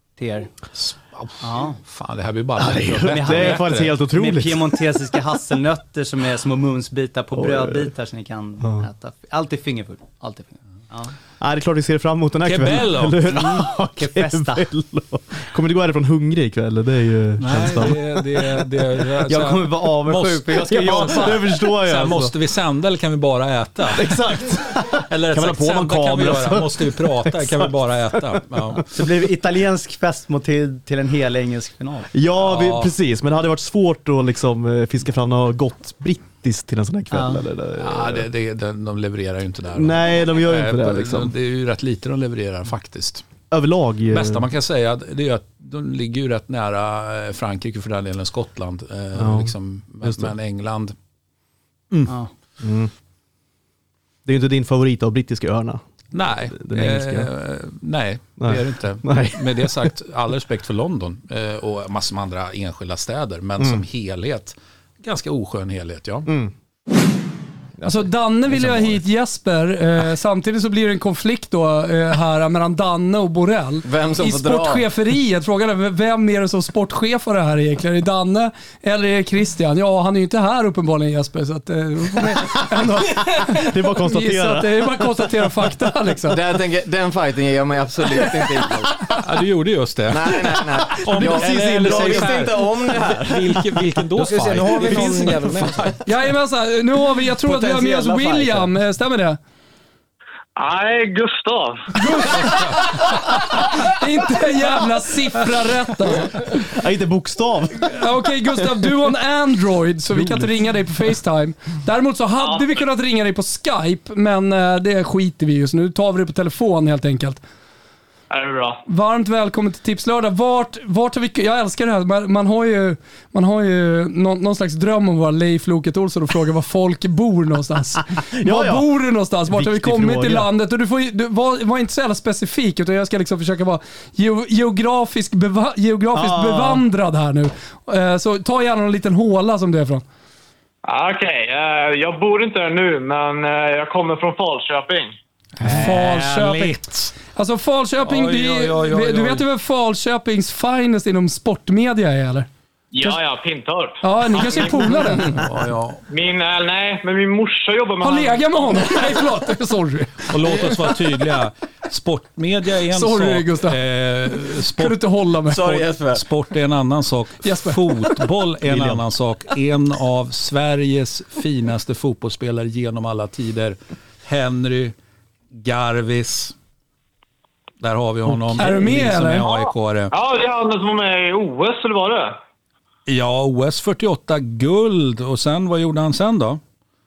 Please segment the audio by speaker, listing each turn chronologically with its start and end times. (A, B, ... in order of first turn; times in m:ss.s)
0:00.2-0:00.5 A
0:00.8-0:03.9 B
0:01.4-0:01.8 A
0:02.6-0:05.0 C
0:03.0-0:11.1 A
0:07.3-0:07.9 C
0:11.4-0:18.7 C
0:12.4-0:13.4 B
0:13.4-0:14.7 A
0:17.4-0:24.2 B
0:19.3-0:21.6 A
0:20.7-0:22.3 C
0:23.9-0:28.4 C
0:24.8-0:28.9 B
0:28.9-0:32.1 A
0:32.1-0:38.2 C
0:32.4-0:32.9 B
0:37.1-0:37.4 A
0:37.8-0:43.2 B
0:39.7-0:41.3 C
0:43.5-0:44.5 C
0:44.1-0:50.9 B
0:49.2-0:50.3 C
0:52.6-0:52.9 C
0:54.2-0:55.8 C
0:56.1-1:06.3 B
0:56.6-0:57.3 C
0:58.4-0:59.9 C
1:07.8-1:26.4 D
1:13.8-1:14.8 E
1:22.7-1:25.3 C
1:26.3-1:29.1 E
1:29.2-1:35.9 B
1:30.1-1:36.0 E
1:31.0-1:32.4 C
1:36.0-1:39.4 D
1:37.4-1:38.7 E
1:40.6-1:41.9 F
1:42.0-1:46.5 D
1:46.5-1:48.0 C
1:47.9-1:57.4 D
1:50.1-1:50.5 C
1:52.4-1:52.8 F
1:58.3-1:58.8 F
1:58.9-2:20.0 D
2:08.3-2:08.9 C
2:09.5-2:10.5 C
2:16.1-2:16.8 C
2:20.8-2:25.1 F
2:25.6-2:27.1 B
2:25.7-2:32.5 D
2:28.0-2:29.4 B
2:32.9-2:35.3 F
2:34.0-2:35.4 D
2:35.3-2:36.0 B
2:36.1-2:38.8 F
2:38.0-2:40.3 D
2:40.3-2:45.0 B
2:42.9-2:43.8 D
2:44.7-2:45.8 D
2:45.5-2:46.2 E
2:45.6-2:54.9 B
2:47.4-2:47.8 D
2:48.6-2:49.0 C
2:55.6-2:56.5 B
2:57.8-3:00.1 B
2:58.6-2:59.5 D
3:00.1-3:02.4 F
3:03.1-3:06.6 B